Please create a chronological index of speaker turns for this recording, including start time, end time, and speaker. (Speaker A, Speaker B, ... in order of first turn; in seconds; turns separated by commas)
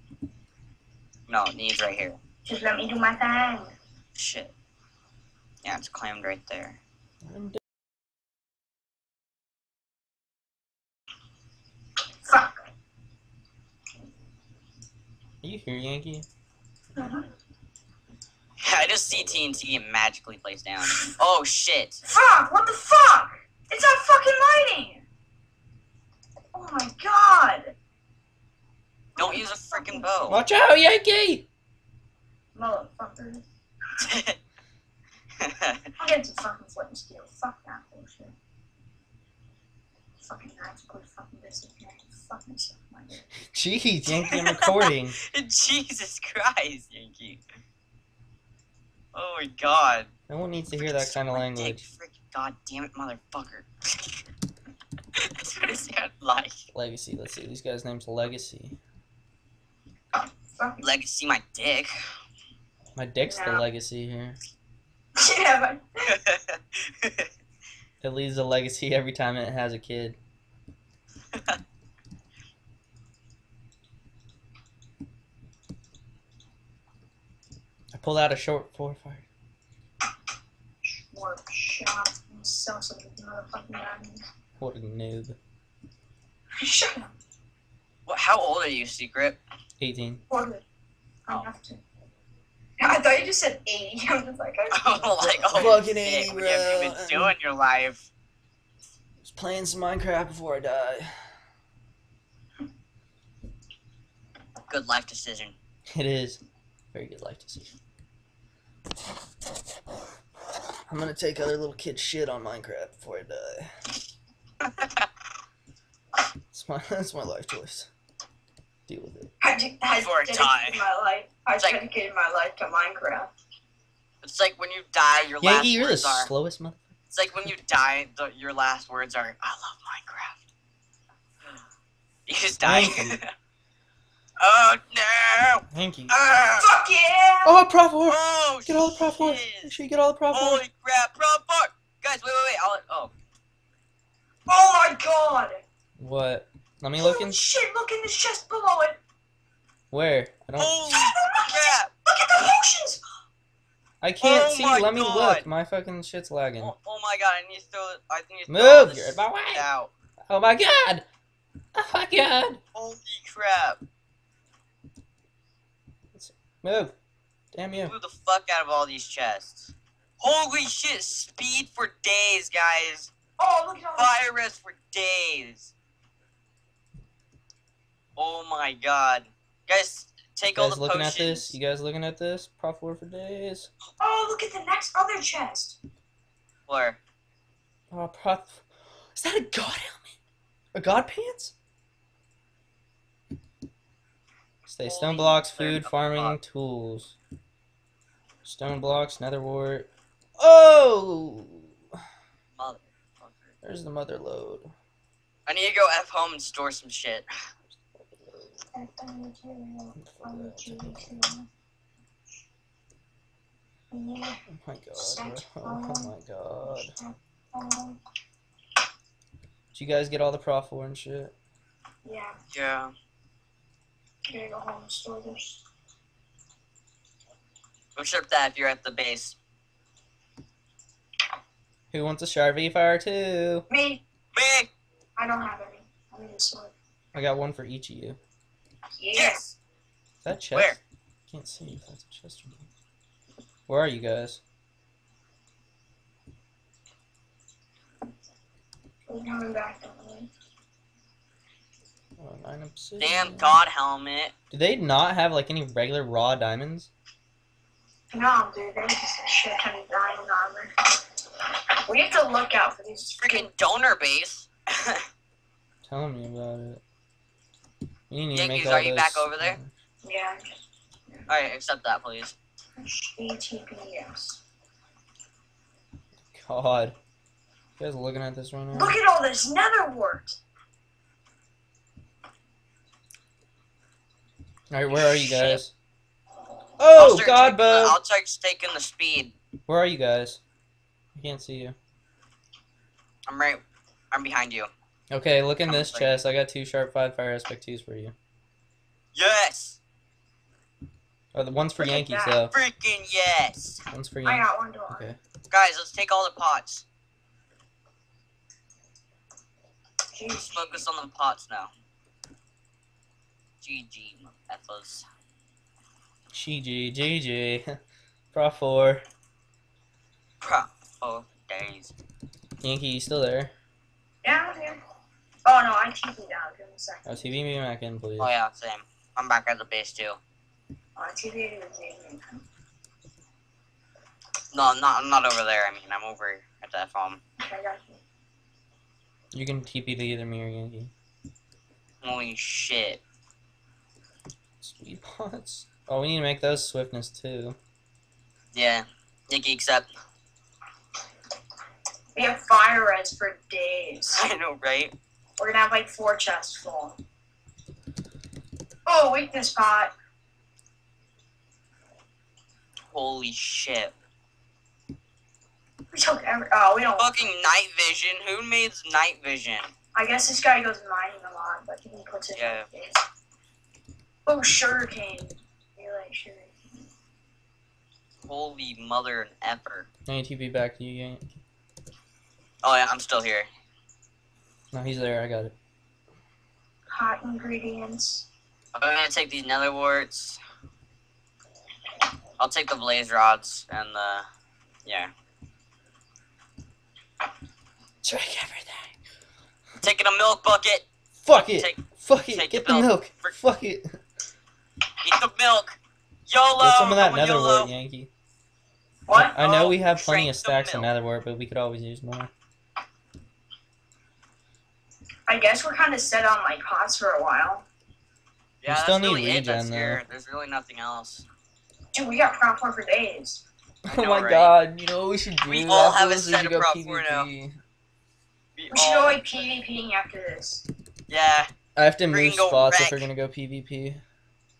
Speaker A: 1.3-2.2, Speaker B: 2.5-3.7, Speaker A: 4.1-4.5, Speaker A: 5.6-6.8, Speaker C: 7.2-7.6, Speaker B: 12.2-12.6, Speaker C: 15.4-16.3, Speaker B: 16.9-17.3, Speaker A: 18.6-22.0, Speaker C: 18.7-19.7, Speaker B: 22.1-25.0, Speaker B: 26.5-27.7, Speaker B: 29.1-30.3, Speaker A: 29.2-30.4, Speaker C: 30.3-31.4, Speaker B: 32.5-33.4, Speaker A: 34.0-34.4, Speaker A: 35.4-35.8, Speaker B: 36.0-38.3, Speaker B: 40.2-43.4, Speaker C: 43.5-45.2, Speaker A: 44.2-44.6, Speaker A: 45.2-47.4, Speaker A: 49.1-50.1, Speaker C: 50.3-51.8, Speaker A: 50.8-54.1, Speaker A: 55.2-56.6, Speaker C: 56.7-58.8, Speaker B: 60.5-60.9, Speaker A: 60.8-61.9, Speaker C: 63.0-64.4, Speaker B: 63.2-63.6, Speaker B: 65.2-66.1, Speaker A: 66.1-67.3, Speaker C: 68.0-70.2, Speaker A: 71.3-71.6, Speaker C: 77.9-79.2, Speaker B: 80.9-84.2, Speaker C: 84.6-85.4, Speaker B: 86.6-87.1, Speaker A: 88.1-89.4, Speaker C: 89.8-90.2, Speaker B: 90.3-90.6, Speaker B: 91.2-91.8, Speaker B: 92.8-95.3, Speaker A: 94.7-98.1, Speaker C: 95.2-97.3, Speaker C: 99.2-101.2, Speaker A: 104.7-105.5, Speaker C: 105.9-106.4, Speaker C: 106.9-107.7, Speaker C: 110.9-113.7, Speaker A: 114.6-115.0, Speaker C: 116.5-117.9, Speaker C: 118.9-119.3, Speaker B: 119.4-123.3, Speaker A: 119.9-120.8, Speaker A: 124.2-126.3, Speaker C: 125.4-126.9, Speaker A: 127.1-130.4, Speaker A: 132.2-133.3, Speaker C: 132.6-133.2, Speaker A: 134.4-136.7, Speaker C: 135.7-136.1, Speaker B: 136.6-137.6, Speaker C: 137.4-140.6, Speaker A: 138.1-139.8, Speaker A: 140.3-143.1, Speaker B: 144.5-145.6, Speaker C: 146.0-147.5, Speaker B: 147.0-149.0, Speaker C: 149.9-150.8, Speaker A: 150.6-151.9, Speaker B: 150.9-153.0, Speaker C: 154.0-156.7, Speaker A: 154.2-155.4, Speaker A: 156.6-159.9, Speaker C: 158.5-159.7, Speaker C: 160.2-161.0, Speaker C: 161.7-162.6, Speaker A: 162.7-163.8, Speaker C: 166.1-166.9, Speaker C: 167.5-167.9, Speaker A: 167.8-173.1, Speaker B: 173.4-174.2, Speaker A: 174.0-175.7, Speaker A: 178.2-181.6, Speaker C: 180.5-183.7, Speaker B: 184.0-185.8, Speaker A: 186.7-187.0, Speaker C: 187.9-190.2, Speaker C: 190.7-191.5, Speaker C: 194.7-197.2, Speaker A: 194.8-196.4, Speaker C: 198.4-201.7, Speaker A: 202.6-203.5, Speaker C: 203.6-204.7, Speaker A: 205.4-207.2, Speaker C: 207.7-208.6, Speaker B: 208.7-211.5, Speaker C: 210.0-211.1, Speaker B: 213.9-214.4, Speaker C: 214.5-217.0, Speaker B: 215.0-216.1, Speaker B: 216.7-218.0, Speaker C: 219.7-221.3, Speaker B: 222.0-222.3, Speaker A: 222.5-222.9, Speaker B: 224.3-225.6, Speaker A: 227.9-229.4, Speaker C: 231.9-233.7, Speaker B: 233.7-234.0, Speaker A: 234.3-234.7, Speaker B: 235.2-236.7, Speaker C: 237.1-238.2, Speaker B: 239.0-239.4, Speaker A: 239.1-239.6, Speaker C: 240.2-242.7, Speaker A: 240.5-240.8, Speaker C: 243.7-244.4, Speaker B: 249.1-250.3, Speaker C: 252.2-253.6, Speaker A: 253.0-254.3, Speaker C: 254.5-256.9, Speaker B: 258.1-260.7, Speaker B: 261.9-263.5, Speaker A: 263.2-265.0, Speaker C: 265.8-266.8, Speaker C: 268.1-269.7, Speaker A: 268.3-269.6, Speaker B: 270.0-270.4, Speaker A: 271.3-272.3, Speaker B: 272.8-274.4, Speaker C: 276.2-276.9, Speaker C: 277.8-279.0, Speaker B: 278.7-280.4, Speaker C: 284.7-285.7, Speaker A: 285.0-285.6, Speaker C: 286.8-288.0, Speaker A: 286.9-289.3, Speaker C: 289.7-290.4, Speaker C: 291.1-291.8, Speaker A: 293.3-294.7, Speaker C: 295.1-298.1, Speaker A: 295.6-296.2, Speaker A: 299.1-299.8, Speaker C: 301.3-302.5, Speaker B: 301.8-302.4, Speaker A: 302.5-303.8, Speaker C: 303.9-305.2, Speaker B: 304.2-305.1, Speaker A: 305.5-306.8, Speaker B: 310.1-310.8, Speaker A: 310.3-311.7, Speaker A: 313.6-315.0, Speaker C: 316.3-317.7, Speaker C: 318.3-319.0, Speaker A: 320.4-321.9, Speaker C: 322.6-323.5, Speaker B: 324.2-324.8, Speaker B: 325.4-327.2, Speaker C: 327.0-328.3, Speaker A: 328.2-330.2, Speaker B: 330.9-332.4, Speaker A: 334.5-337.2, Speaker B: 337.4-338.0, Speaker C: 339.3-340.9, Speaker A: 342.0-343.0, Speaker C: 344.6-347.6, Speaker A: 348.5-349.9, Speaker B: 352.1-354.2, Speaker A: 354.1-354.9, Speaker B: 355.4-357.0, Speaker B: 358.9-359.9, Speaker A: 362.9-363.9, Speaker B: 365.9-367.3, Speaker A: 367.0-369.7, Speaker B: 369.9-373.0, Speaker A: 372.3-372.6, Speaker B: 374.2-376.8, Speaker A: 378.2-379.9, Speaker C: 380.1-381.4, Speaker A: 382.6-383.5, Speaker C: 384.7-385.5, Speaker B: 386.9-388.3, Speaker A: 388.7-390.4, Speaker A: 392.4-394.2, Speaker A: 394.8-395.1, Speaker C: 398.0-398.9, Speaker A: 399.8-403.3, Speaker C: 401.2-404.0, Speaker A: 405.0-407.7, Speaker C: 406.6-408.1, Speaker B: 409.1-409.4, Speaker C: 409.1-412.3, Speaker A: 409.4-410.9, Speaker B: 415.3-417.6, Speaker A: 418.6-421.2, Speaker C: 418.7-420.0, Speaker B: 421.9-423.4, Speaker C: 423.9-427.6, Speaker A: 423.9-424.6, Speaker A: 425.5-427.3, Speaker A: 428.6-429.2, Speaker B: 428.7-430.6, Speaker A: 431.1-431.5, Speaker C: 431.8-434.0, Speaker A: 432.1-433.1